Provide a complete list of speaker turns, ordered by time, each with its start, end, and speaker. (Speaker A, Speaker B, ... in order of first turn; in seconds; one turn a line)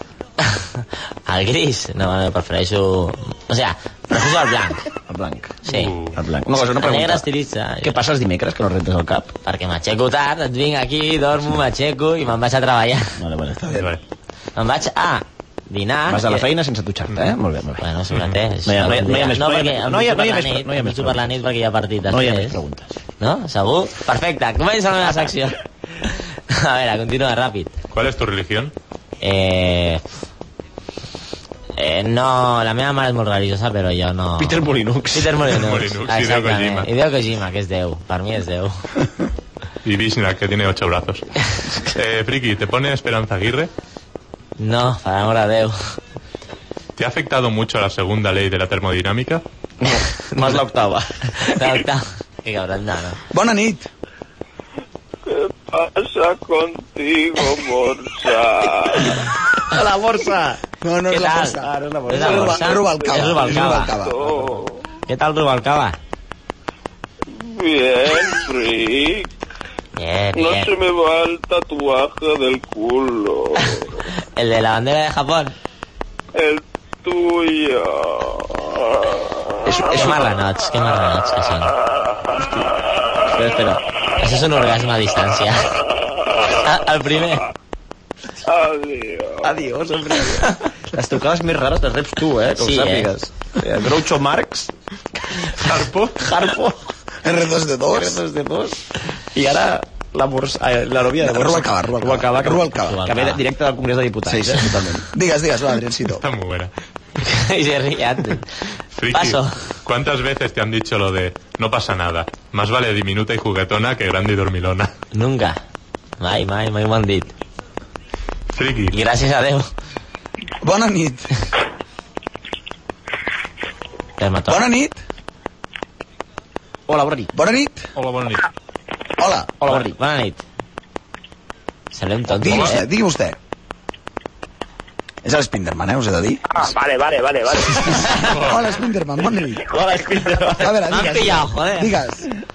Speaker A: 0.4-4.9
Speaker B: 5.0-5.6
Speaker A: 5.7-5.9
Speaker C: 5.7-6.2
Speaker B: 6.1-7.2
Speaker A: 6.6-8.0
Speaker B: 7.8-9.3
Speaker A: 9.4-13.2
Speaker B: 13.2-13.7
Speaker D: 13.6-13.9
Speaker C: 13.7-14.0
Speaker A: 14.6-16.5
Speaker B: 16.1-17.9
Speaker A: 17.8-22.6
Speaker B: 18.7-21.4
Speaker B: 22.1-23.0
Speaker A: 23.2-27.7
Speaker B: 25.1-25.3
Speaker C: 27.9-28.7
Speaker A: 29.2-30.0
Speaker A: 31.8-38.8
Speaker B: 34.4-35.5
Speaker C: 35.5-36.9
Speaker C: 39.9-41.3
Speaker C: 41.9-43.7
Speaker A: 44.6-46.0
Speaker C: 47.0-49.4
Speaker B: 49.8-51.1
Speaker A: 50.3-50.6
Speaker A: 51.4-53.2
Speaker D: 53.3-53.9
Speaker E: 55.3-59.2
Speaker B: 59.1-60.6
Speaker D: 60.8-64.6
Speaker A: 61.1-64.0
Speaker B: 61.6-62.8
Speaker E: 63.0-64.8
Speaker A: 65.1-66.0
Speaker E: 67.3-69.3
Speaker A: 70.0-70.7
Speaker E: 70.3-74.0
Speaker A: 74.4-75.5
Speaker E: 76.3-79.3
Speaker B: 79.7-80.3
Speaker A: 79.9-81.7
Speaker B: 82.4-82.7
Speaker B: 83.2-83.8
Speaker A: 84.2-85.7
Speaker A: 86.6-87.5
Speaker E: 88.5-89.5
Speaker B: 89.4-94.7
Speaker A: 92.6-93.1
Speaker B: 95.3-96.8
Speaker C: 95.6-96.1
Speaker D: 97.2-98.2
Speaker B: 97.9-104.8
Speaker D: 101.2-103.0
Speaker A: 102.8-103.4
Speaker D: 104.3-106.2
Speaker C: 106.2-106.7
Speaker A: 107.2-109.5
Speaker C: 109.0-114.9
Speaker A: 115.1-115.6
Speaker A: 116.2-117.3
Speaker C: 118.5-119.0
Speaker A: 118.9-119.7
Speaker D: 120.6-121.3
Speaker A: 124.2-124.6
Speaker D: 124.5-125.0
Speaker B: 126.9-127.3
Speaker D: 127.3-127.9
Speaker C: 128.0-128.5
Speaker D: 129.2-129.6
Speaker B: 129.6-130.0
Speaker A: 129.7-130.4
Speaker A: 131.9-132.8
Speaker D: 132.3-133.4
Speaker C: 132.5-132.8
Speaker D: 135.2-136.6
Speaker F: 136.5-138.2
Speaker D: 137.7-139.7
Speaker C: 138.3-138.6
Speaker B: 139.7-140.8
Speaker F: 139.8-140.4
Speaker D: 140.5-142.3
Speaker A: 140.9-141.9